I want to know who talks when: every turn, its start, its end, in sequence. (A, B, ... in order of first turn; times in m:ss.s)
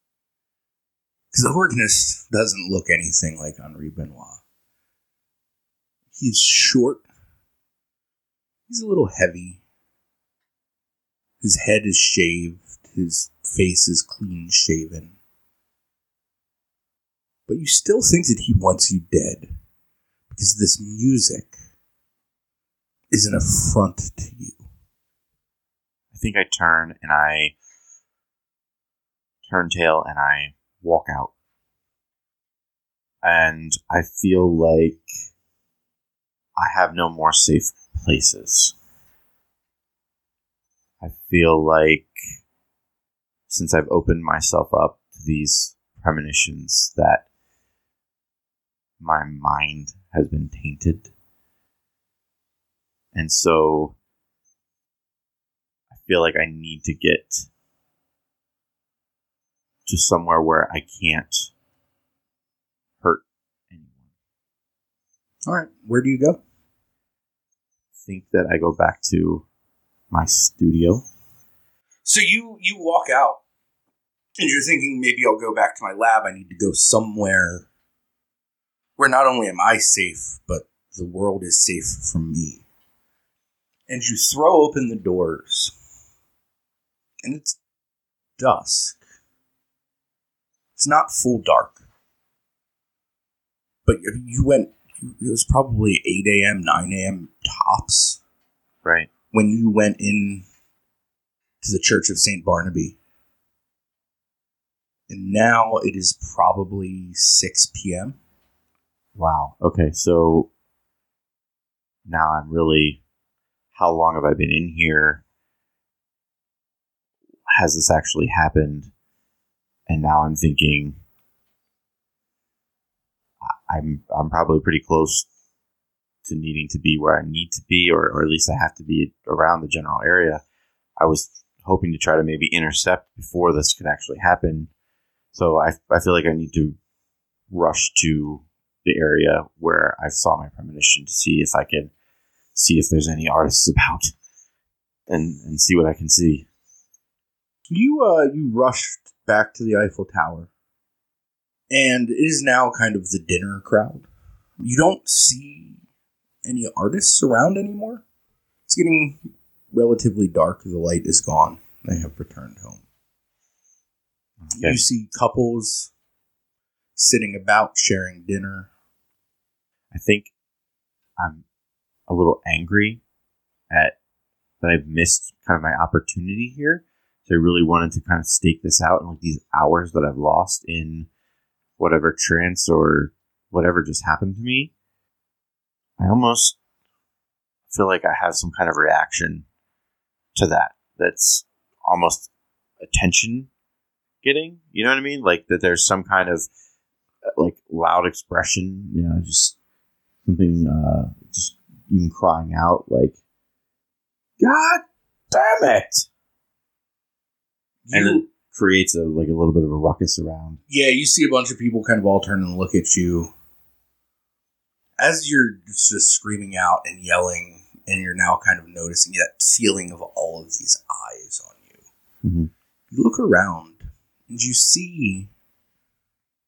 0:01.3-0:04.4 A
0:06.1-0:07.0 A
0:08.7-0:09.6 A
0:11.4-0:15.1 A
0:17.5-0:19.5 A
0:20.3-0:21.5 A
0:23.1-0:24.6 A
0:26.1-0:27.5 B
0:29.4-0:31.3 B
0:33.2-0:35.1 B
0:36.6-0:38.7 B
0:41.0-0:42.2 B
0:43.5-0:47.2 B
0:49.0-0:51.1 B
0:53.1-0:53.9 B
0:55.9-0:57.5 B
0:59.8-1:01.5 B
1:03.0-1:04.0 B
1:05.5-1:06.4 A
1:08.0-1:09.4 B
1:10.1-1:11.0 B
1:12.0-1:13.4 A
1:14.4-1:17.6 A
1:19.0-1:22.6 A
1:23.9-1:25.7 A
1:27.2-1:27.6 A
1:28.4-1:29.0 A
1:30.8-1:31.8 A
1:33.8-1:38.2 A
1:38.8-1:39.1 B
1:39.3-1:40.4 A
1:41.6-1:43.0 A
1:45.1-1:48.2 A
1:49.2-1:50.5 B
1:52.0-1:53.0 B
1:53.7-1:55.2 B
1:57.5-1:58.9 B
1:59.9-2:01.0 B
2:03.4-2:05.3 B
2:06.2-2:10.4 B
2:11.0-2:14.7 B
2:15.3-2:16.8 B
2:17.5-2:21.9 B
2:22.5-2:24.1 B
2:25.1-2:26.5 B
2:27.7-2:30.5 A
2:31.7-2:34.0 A
2:34.6-2:35.8 A
2:36.4-2:38.0 A
2:38.7-2:39.2 A
2:39.7-2:42.8 A
2:44.4-2:44.8 B
2:44.5-2:45.9 A
2:47.0-2:48.7 A
2:49.9-2:50.3 B
2:51.2-2:51.4 B
2:52.1-2:53.0 B
2:53.7-2:53.9 B
2:54.6-3:01.1 B
3:01.8-3:04.7 B
3:06.0-3:06.6 B
3:07.7-3:09.5 B
3:10.3-3:12.3 B
3:12.8-3:13.5 B
3:14.2-3:16.5 B
3:17.2-3:19.5 B
3:20.2-3:23.1 B
3:24.5-3:24.8 A
3:25.3-3:26.1 B
3:27.9-3:28.2 A
3:27.9-3:30.6 B
3:30.7-3:33.3 A
3:35.0-3:41.8 A
3:42.2-3:42.5 B
3:42.9-3:45.3 A